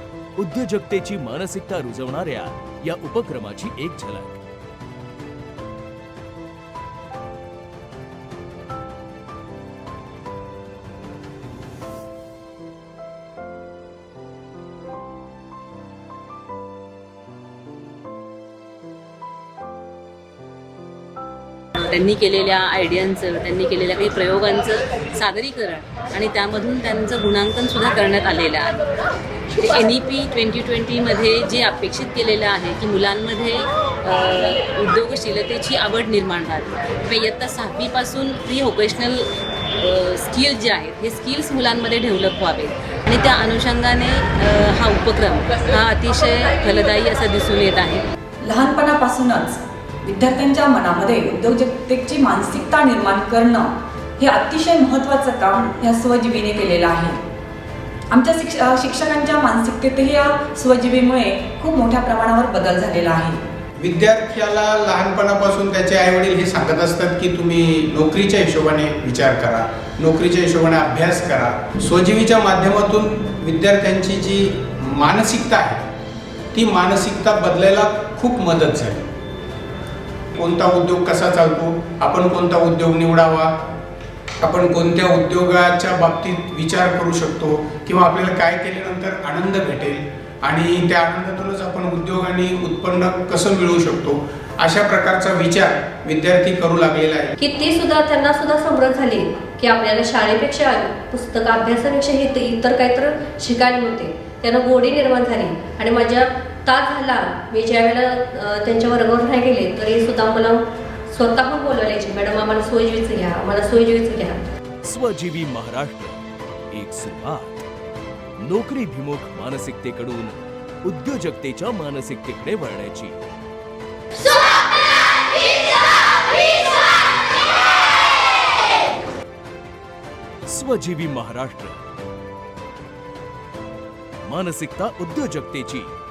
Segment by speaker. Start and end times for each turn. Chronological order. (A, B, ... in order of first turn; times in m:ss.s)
0:00.4-0:04.4 A
0:21.8-0:28.8 B
0:29.6-0:39.2 B
0:39.8-0:48.0 B
0:48.4-0:57.2 C
0:58.1-1:03.4 C
1:03.8-1:15.8 D
1:16.5-1:19.0 D
1:20.4-1:23.5 D
1:24.4-1:37.4 D
1:37.4-1:54.4 E
1:54.8-1:56.2 A
1:56.7-1:57.6 A
1:58.4-2:03.2 A
2:10.5-2:11.8 A
2:14.3-2:15.9 A